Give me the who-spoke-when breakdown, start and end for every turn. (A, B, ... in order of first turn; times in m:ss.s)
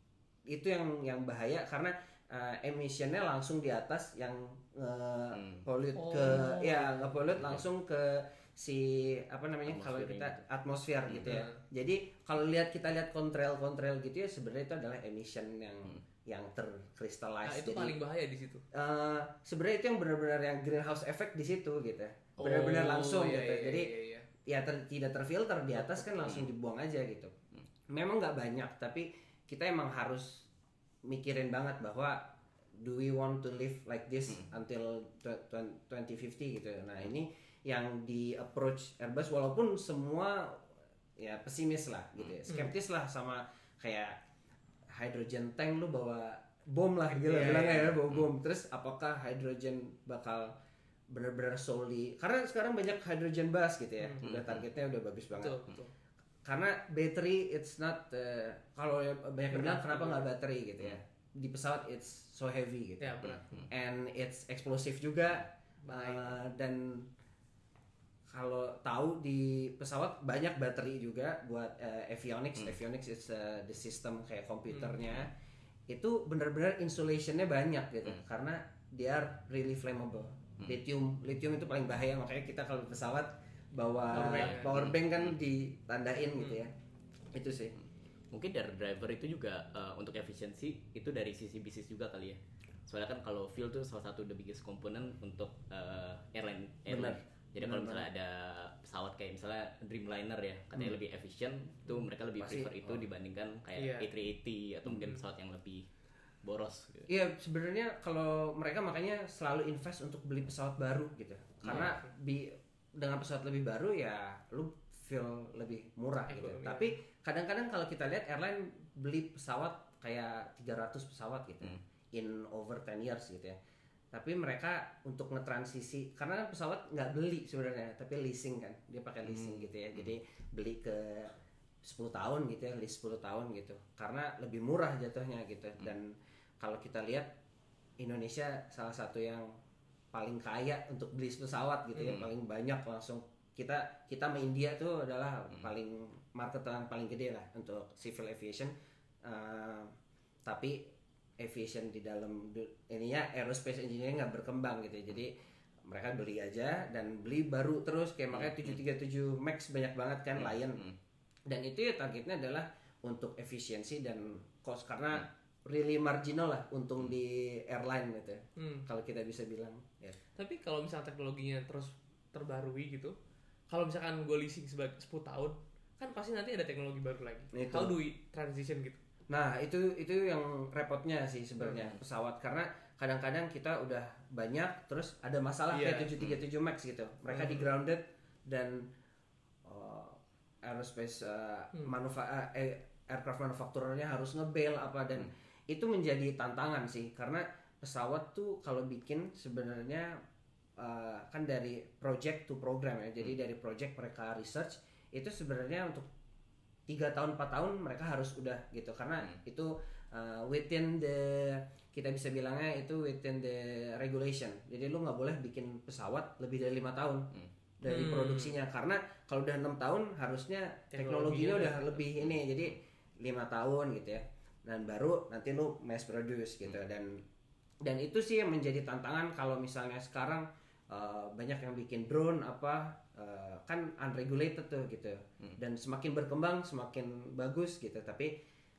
0:00.5-0:18.0 A
0:05.3-0:05.6 B
0:05.9-0:07.0 C
0:09.7-0:10.4 B
0:11.1-0:11.4 B
0:11.2-0:11.6 C
0:17.4-0:18.6 C
0:18.7-0:23.9 A
0:22.4-0:24.3 C
0:24.4-0:27.3 A
0:26.1-0:26.4 B
0:27.9-0:30.5 A
0:31.0-0:44.2 A
0:44.9-0:50.5 A
0:47.1-0:47.9 C
0:51.1-0:55.6 A
0:54.0-0:54.2 C
0:54.2-0:54.6 B
0:55.4-0:55.9 C
0:56.4-1:07.1 A
0:59.5-1:00.2 C
1:03.0-1:03.6 C
1:03.2-1:03.7 B
1:05.8-1:06.3 C
1:08.3-1:15.3 A
1:15.9-1:26.7 A
1:24.1-1:24.8 C
1:24.1-1:25.1 B
1:27.3-1:27.7 A
1:28.3-1:45.8 B
1:36.9-1:38.1 A
1:42.4-1:43.0 A
1:43.8-1:44.1 C
1:46.4-1:47.1 B
1:47.1-2:03.6 A
1:51.6-1:52.0 B
1:51.7-1:52.0 C
1:56.3-1:56.9 C
2:04.1-2:17.3 A
2:09.2-2:10.0 B
2:18.0-2:19.5 A
2:20.1-2:29.9 A
2:30.4-2:35.3 A
2:35.8-2:40.9 A
2:40.4-2:40.9 B
2:41.5-2:50.2 A
2:48.6-2:48.8 C
2:50.4-2:53.2 C
2:53.7-2:59.0 C
2:57.5-2:58.0 A
2:59.3-3:08.9 A
3:05.7-3:06.1 C
3:07.3-3:07.7 C
3:09.6-3:20.2 A
3:20.8-3:26.1 A
3:26.9-3:37.3 A
3:37.8-3:47.2 A
3:37.8-3:38.5 C
3:40.9-3:42.0 C
3:47.8-3:58.3 A